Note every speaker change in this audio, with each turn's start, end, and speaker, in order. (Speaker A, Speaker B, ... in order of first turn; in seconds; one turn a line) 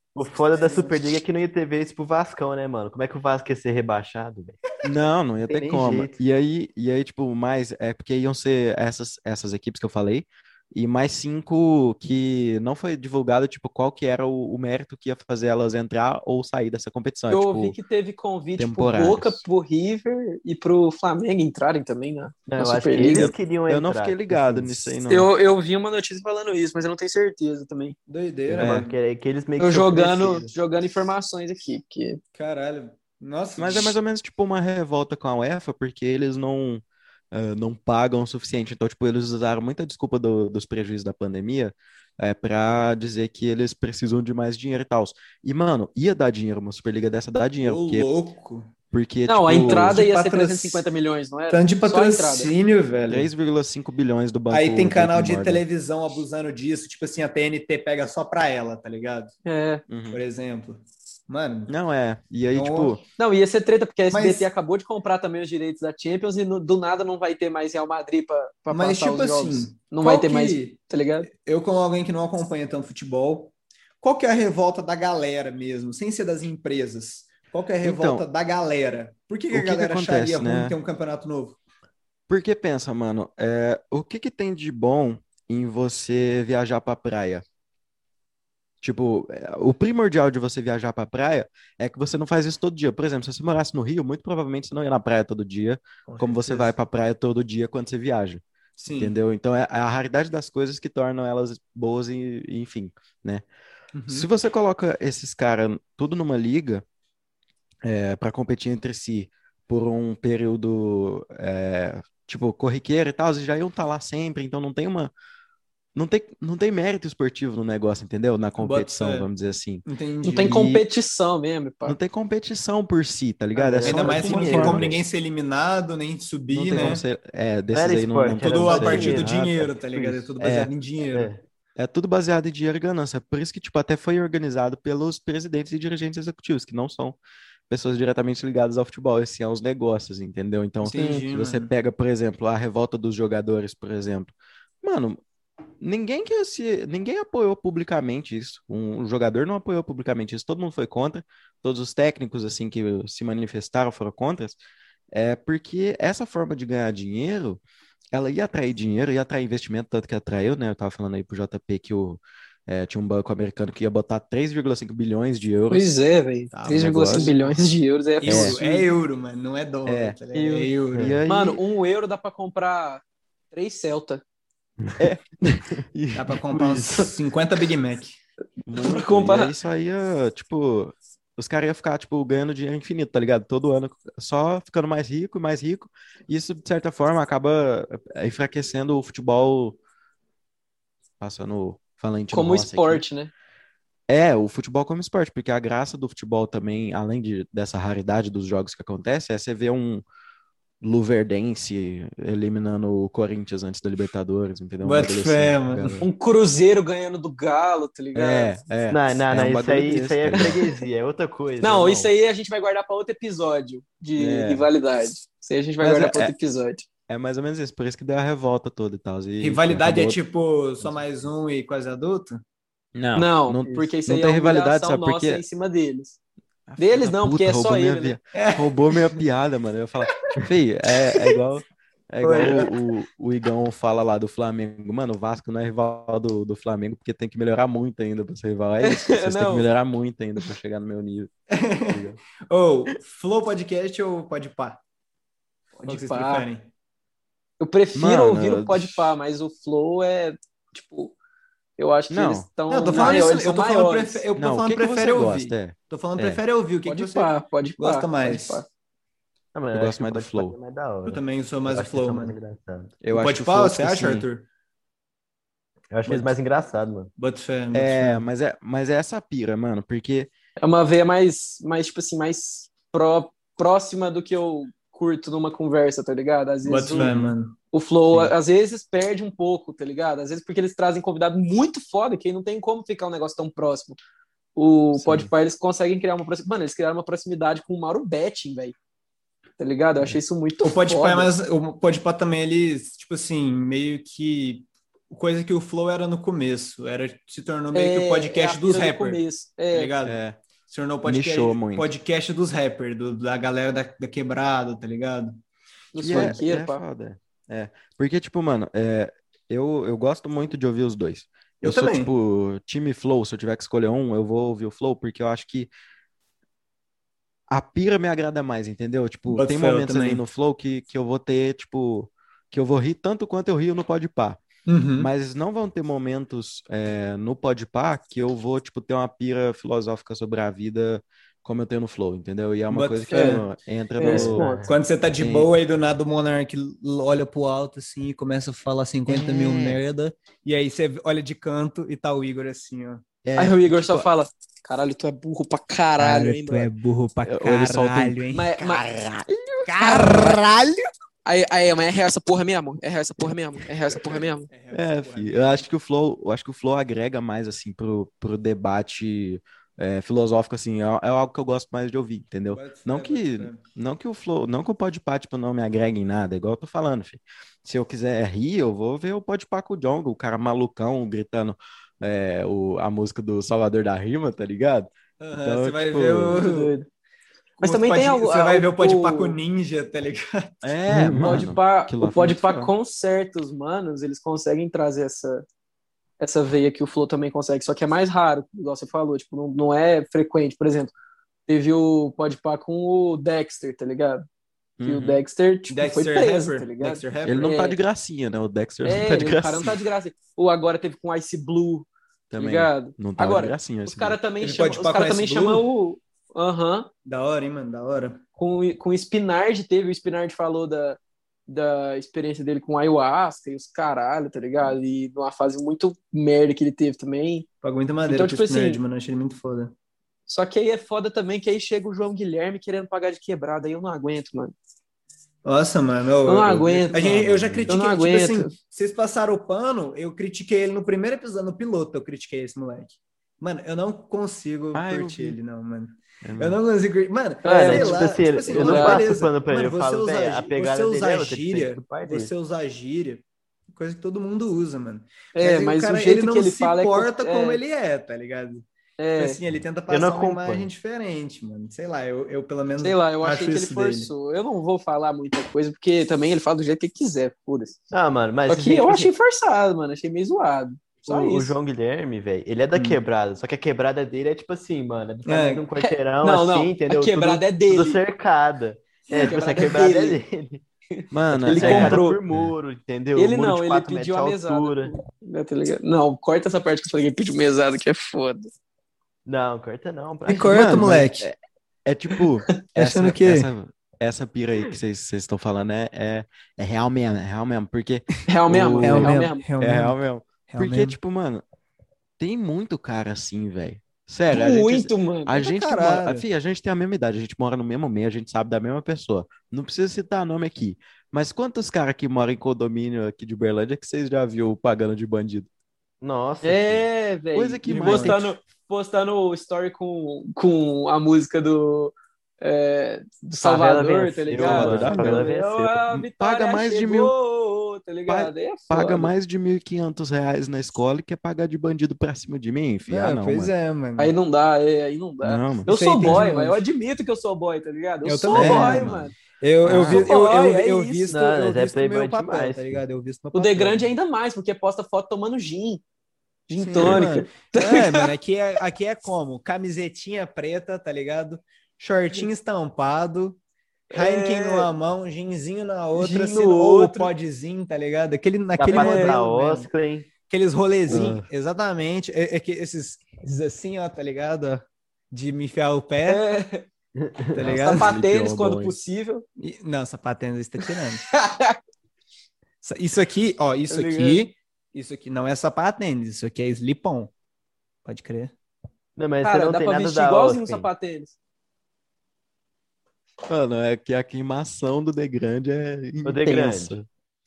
Speaker A: 0.1-4.6
Speaker B: 0.6-0.9
Speaker C: 4.8-17.8
Speaker A: 5.5-6.2
Speaker D: 17.3-23.3
Speaker C: 18.6-19.4
Speaker A: 22.5-24.9
Speaker C: 22.9-25.3
Speaker D: 25.1-28.0
Speaker B: 28.1-29.0
Speaker A: 28.5-30.5
Speaker C: 28.6-28.9
Speaker D: 29.6-32.2
Speaker B: 32.4-34.0
Speaker C: 33.6-48.1
Speaker B: 47.6-48.7
Speaker C: 48.9-50.0
Speaker D: 49.3-52.5
Speaker B: 49.6-50.9
Speaker B: 51.5-53.3
Speaker C: 53.1-55.6
Speaker B: 54.5-59.3
Speaker D: 59.5-59.8
Speaker C: 59.9-60.2
Speaker B: 60.1-61.7
Speaker C: 61.7-63.0
Speaker B: 62.5-63.0
Speaker D: 63.2-71.3
Speaker B: 64.1-64.5
Speaker B: 68.7-81.6
Speaker C: 77.8-78.2
Speaker C: 79.5-80.8
Speaker C: 82.3-87.4
Speaker C: 88.8-103.4
Speaker B: 96.1-96.7
Speaker B: 98.8-99.2
Speaker B: 104.0-104.3
Speaker C: 104.1-106.8
Speaker C: 107.8-115.1
Speaker C: 116.0-119.8
Speaker B: 118.6-119.3
Speaker B: 119.9-120.7
Speaker D: 120.2-122.0
Speaker C: 120.4-120.8
Speaker C: 121.8-125.0
Speaker A: 123.7-125.0
Speaker B: 123.8-127.0
Speaker D: 124.0-124.8
Speaker C: 126.5-129.3
Speaker A: 127.7-130.3
Speaker B: 128.4-131.3
Speaker C: 130.4-130.7
Speaker A: 131.1-131.4
Speaker C: 131.8-137.2
Speaker C: 137.7-145.2
Speaker B: 140.8-141.7
Speaker C: 145.8-154.6
Speaker C: 155.1-157.6
Speaker C: 158.1-165.9
Speaker D: 165.7-168.9
Speaker B: 166.5-167.6
Speaker C: 166.7-167.3
Speaker B: 168.2-171.2
Speaker C: 168.2-168.6
Speaker C: 169.9-170.2
Speaker D: 170.3-170.7
Speaker A: 170.9-171.2
Speaker C: 171.0-171.6
Speaker D: 171.3-174.2
Speaker C: 175.0-177.1
Speaker B: 176.1-178.2
Speaker C: 178.7-189.8
Speaker D: 178.8-179.5
Speaker C: 191.2-193.0
Speaker D: 192.3-193.3
Speaker C: 194.1-200.0
Speaker C: 200.8-206.1
Speaker B: 204.8-206.0
Speaker D: 206.0-208.5
Speaker C: 208.2-210.7
Speaker A: 208.9-212.1
Speaker D: 211.6-216.9
Speaker C: 214.2-214.7
Speaker C: 215.8-216.3
Speaker C: 217.1-220.2
Speaker B: 219.4-222.4
Speaker C: 222.9-225.4
Speaker D: 223.2-226.2
Speaker C: 226.7-242.2
Speaker D: 226.8-228.2
Speaker B: 228.3-229.2
Speaker B: 232.2-232.7
Speaker D: 238.8-239.7
Speaker B: 241.5-244.8
Speaker D: 245.8-246.5
Speaker B: 245.8-246.7
Speaker D: 247.6-251.2
Speaker C: 247.9-249.1
Speaker D: 251.8-254.2
Speaker C: 252.1-253.4
Speaker B: 252.7-258.6
Speaker C: 254.4-256.4
Speaker D: 256.9-258.7
Speaker A: 259.5-262.9
Speaker C: 259.7-260.6
Speaker B: 261.1-262.4
Speaker C: 263.0-264.3
Speaker B: 263.1-264.5
Speaker A: 265.9-267.1
Speaker B: 266.1-266.3
Speaker B: 267.2-268.3
Speaker C: 267.7-270.3
Speaker D: 270.6-277.1
Speaker B: 276.6-277.6
Speaker C: 276.9-277.3
Speaker D: 277.7-284.0
Speaker D: 284.6-288.8
Speaker C: 285.0-285.3
Speaker D: 289.6-291.3
Speaker B: 290.6-299.2
Speaker D: 297.7-299.9
Speaker B: 299.7-305.4
Speaker C: 300.0-300.4
Speaker C: 301.0-301.9
Speaker D: 305.9-306.8
Speaker C: 306.0-315.7
Speaker B: 306.1-306.4
Speaker B: 311.6-312.1
Speaker C: 317.5-324.4
Speaker B: 319.3-320.2
Speaker B: 324.7-325.1
Speaker C: 325.0-334.5
Speaker B: 332.7-333.4
Speaker D: 333.1-333.4
Speaker D: 334.0-334.7
Speaker A: 334.1-334.7
Speaker B: 334.1-343.0
Speaker C: 335.2-335.5
Speaker C: 339.1-339.8
Speaker C: 343.2-344.1
Speaker D: 343.4-346.7
Speaker B: 346.0-348.5
Speaker C: 347.2-350.5
Speaker D: 348.3-348.8
Speaker B: 349.7-350.8
Speaker D: 349.9-350.3
Speaker D: 351.2-354.5
Speaker B: 354.5-355.7
Speaker C: 354.7-376.4
Speaker B: 362.5-363.6
Speaker B: 375.2-376.7
Speaker D: 376.3-376.9
Speaker B: 377.6-380.6
Speaker D: 377.6-379.4
Speaker C: 380.6-382.7
Speaker A: 380.9-381.5
Speaker D: 381.2-385.4
Speaker D: 386.2-390.9
Speaker D: 391.5-394.2
Speaker C: 394.8-395.2
Speaker D: 394.8-397.8
Speaker B: 395.7-397.5
Speaker C: 397.2-399.8
Speaker D: 398.9-406.9
Speaker C: 402.3-404.2
Speaker B: 404.4-405.7
Speaker B: 407.1-408.2
Speaker D: 408.4-417.5
Speaker B: 417.6-419.7
Speaker D: 418.1-418.8
Speaker D: 420.3-424.5
Speaker B: 425.4-448.6
Speaker D: 426.2-427.1
Speaker C: 426.9-427.7
Speaker D: 427.7-428.5
Speaker C: 434.7-435.4
Speaker C: 436.2-436.6
Speaker D: 437.4-439.1
Speaker A: 437.5-442.3
Speaker D: 445.4-447.6
Speaker D: 449.0-449.4
Speaker B: 449.2-454.1
Speaker A: 449.9-450.7
Speaker D: 452.8-457.8
Speaker A: 457.9-459.1
Speaker D: 458.5-461.5
Speaker A: 461.1-470.6
Speaker B: 465.3-465.7
Speaker D: 465.8-468.0
Speaker D: 469.1-470.2
Speaker D: 471.0-472.2
Speaker C: 471.1-472.5
Speaker A: 471.3-474.9
Speaker D: 473.2-478.5
Speaker A: 479.2-481.0
Speaker B: 480.3-481.3
Speaker C: 480.5-491.4
Speaker B: 482.7-483.5
Speaker D: 488.3-489.4
Speaker B: 488.8-490.0
Speaker B: 490.5-491.0
Speaker C: 492.2-505.5
Speaker D: 494.3-495.4
Speaker B: 495.4-496.2
Speaker A: 506.0-506.8
Speaker D: 506.4-519.1
Speaker C: 507.3-508.3
Speaker A: 507.7-508.1
Speaker A: 513.4-515.7
Speaker C: 514.3-515.2
Speaker C: 515.9-517.1
Speaker C: 518.1-523.5
Speaker B: 522.9-524.1
Speaker D: 524.0-529.1
Speaker C: 525.2-526.2
Speaker B: 525.6-526.6
Speaker B: 528.0-533.9
Speaker C: 528.3-529.0
Speaker C: 529.6-530.1
Speaker D: 529.9-531.1
Speaker A: 531.1-532.8
Speaker D: 533.3-535.8
Speaker D: 536.5-538.1
Speaker B: 536.6-543.4
Speaker D: 543.9-544.7
Speaker B: 543.9-549.7
Speaker D: 546.0-547.1
Speaker A: 548.6-550.1
Speaker D: 548.7-549.2
Speaker B: 550.3-556.2
Speaker C: 550.9-551.2
Speaker D: 556.1-556.7
Speaker A: 557.0-557.5
Speaker B: 557.4-557.9
Speaker C: 557.4-558.8
Speaker D: 557.4-559.2
Speaker B: 559.4-561.0
Speaker D: 560.7-561.6
Speaker B: 562.6-567.1
Speaker D: 563.7-564.3
Speaker B: 567.9-568.3
Speaker A: 569.0-570.7
Speaker D: 569.2-571.1
Speaker C: 573.3-576.8
Speaker A: 576.0-576.9